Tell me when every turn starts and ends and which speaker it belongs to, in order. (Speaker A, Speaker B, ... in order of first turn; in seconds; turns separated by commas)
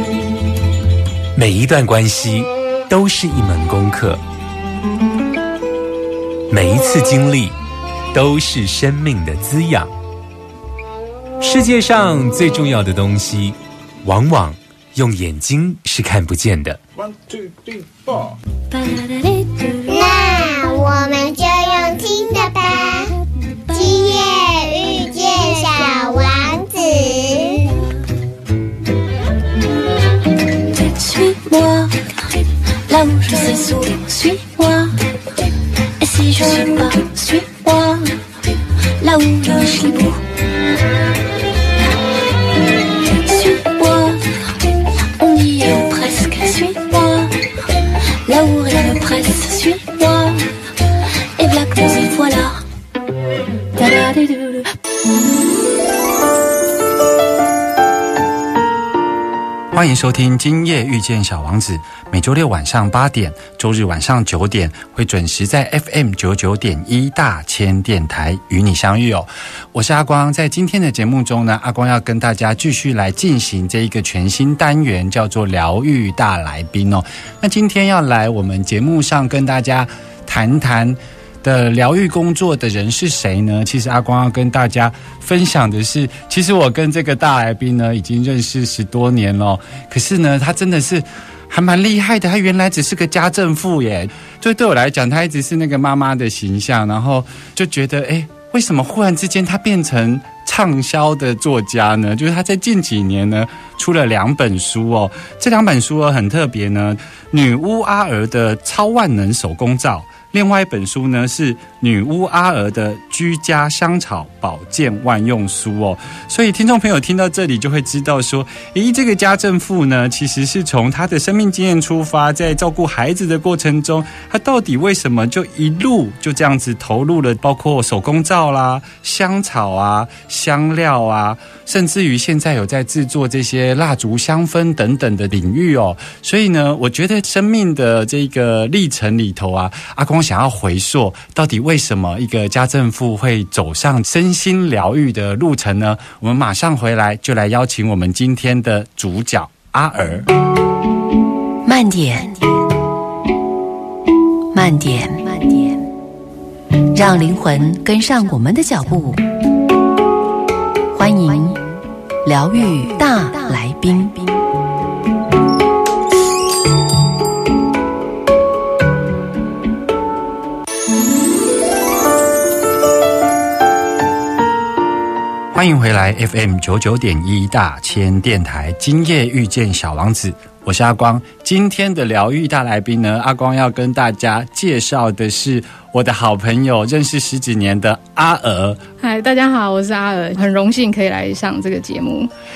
Speaker A: 1.3-4.2, Speaker A: 6.5-7.5, Speaker A: 8.1-9.9, Speaker A: 11.4-16.8, Speaker B: 18.7-19.9, Speaker C: 19.9-23.1, Speaker C: 23.7-27.7, Speaker B: 30.6-35.1, Speaker B: 36.0-38.2, Speaker B: 39.0-40.2, Speaker B: 43.1-47.4, Speaker B: 48.2-50.6, Speaker B: 51.3-52.6, Speaker B: 53.7-54.7, Speaker D: 59.7-150.3, Speaker E: 151.6-152.6, Speaker E: 154.5-155.9, Speaker E: 156.9-159.2, Speaker E: 160.9-161.7, Speaker E: 162.2-164.4, Speaker D: 175.5-188.8, Speaker F: 189.0-192.3